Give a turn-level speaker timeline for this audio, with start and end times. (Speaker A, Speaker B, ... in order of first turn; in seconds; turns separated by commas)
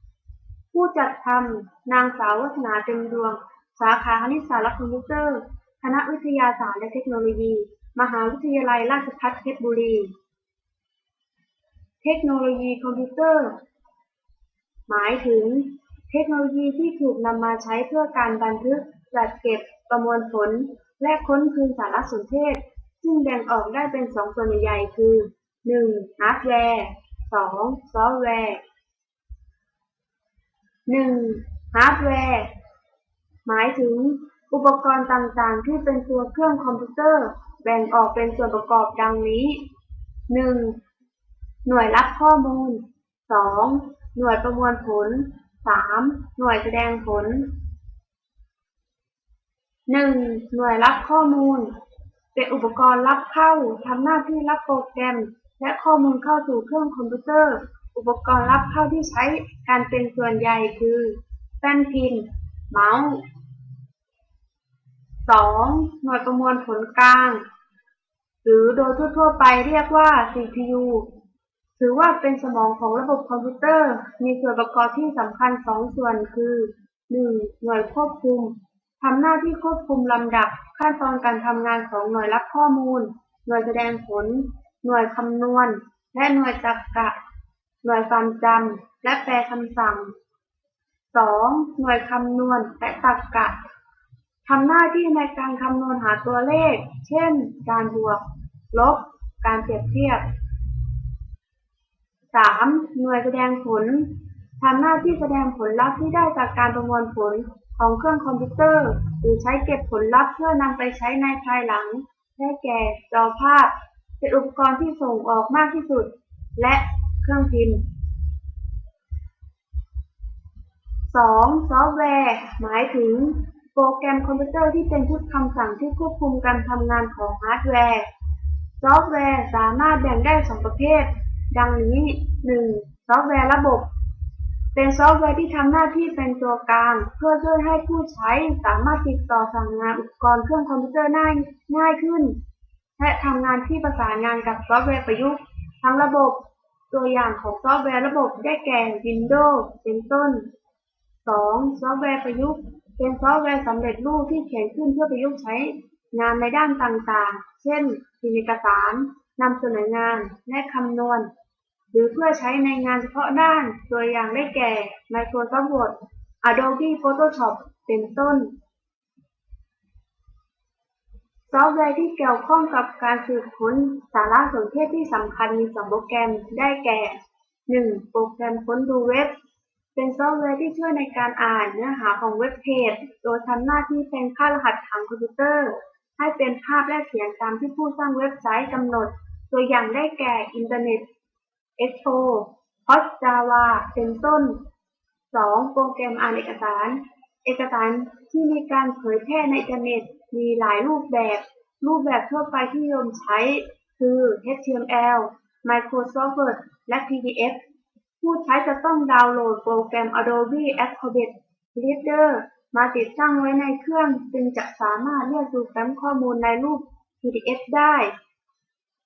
Speaker A: 0.7-10.1, Speaker A: 12.0-13.6, Speaker A: 14.9-28.6, Speaker A: 30.9-32.5, Speaker A: 33.5-39.7, Speaker A: 40.3-40.8, Speaker A: 41.6-47.5, Speaker A: 49.9-51.7, Speaker A: 52.4-63.2, Speaker A: 65.3-67.4, Speaker A: 68.4-71.1, Speaker A: 71.8-87.2, Speaker A: 87.8-90.1, Speaker A: 91.1-93.6, Speaker A: 94.5-100.2, Speaker A: 102.3-117.8, Speaker A: 121.1-128.1, Speaker A: 128.8-133.9, Speaker A: 134.8-142.4, Speaker A: 143.0-150.5, Speaker A: 151.2-161.3, Speaker A: 161.9-168.5, Speaker A: 171.5-179.3, Speaker A: 180.0-191.1, Speaker A: 191.8-194.6, Speaker A: 195.3-207.6, Speaker A: 208.2-218.1